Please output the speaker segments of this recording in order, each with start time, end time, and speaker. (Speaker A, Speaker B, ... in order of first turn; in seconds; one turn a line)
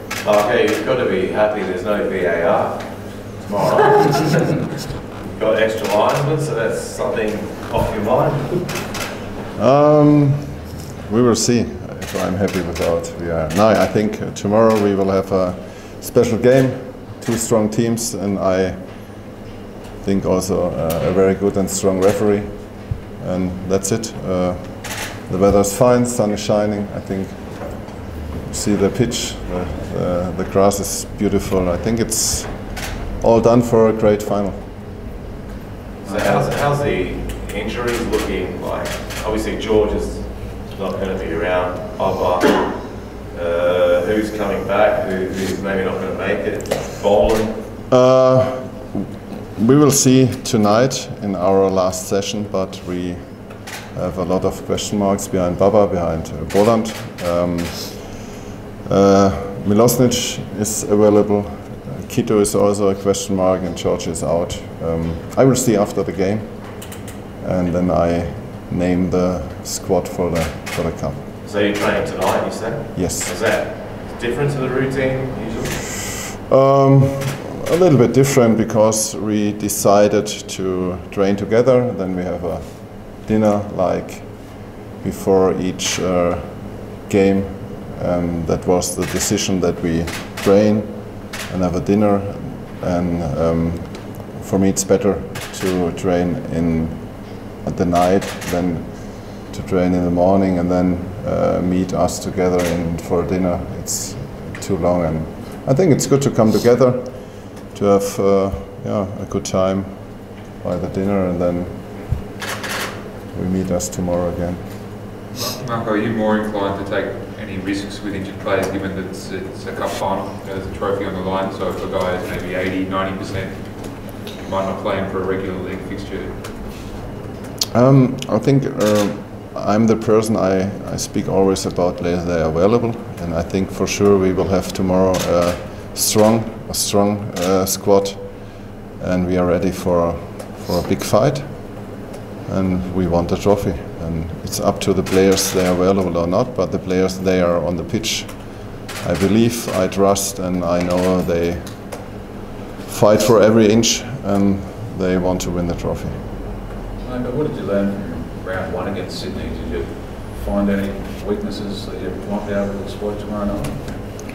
Speaker A: 0.2-4.5
Speaker A: 5.2-8.8
Speaker B: 9.6-19.4
Speaker B: 20.0-34.7
Speaker A: 36.0-47.7
Speaker C: 36.0-36.5
Speaker B: 47.9-58.2
Speaker B: 58.9-71.3
Speaker A: 71.4-75.8
Speaker B: 72.9-73.3
Speaker B: 76.5-112.3
Speaker B: 113.3-115.0
Speaker D: 115.3-126.5
Speaker B: 127.7-152.2
Speaker B: 152.8-156.2
Speaker C: 157.0-164.1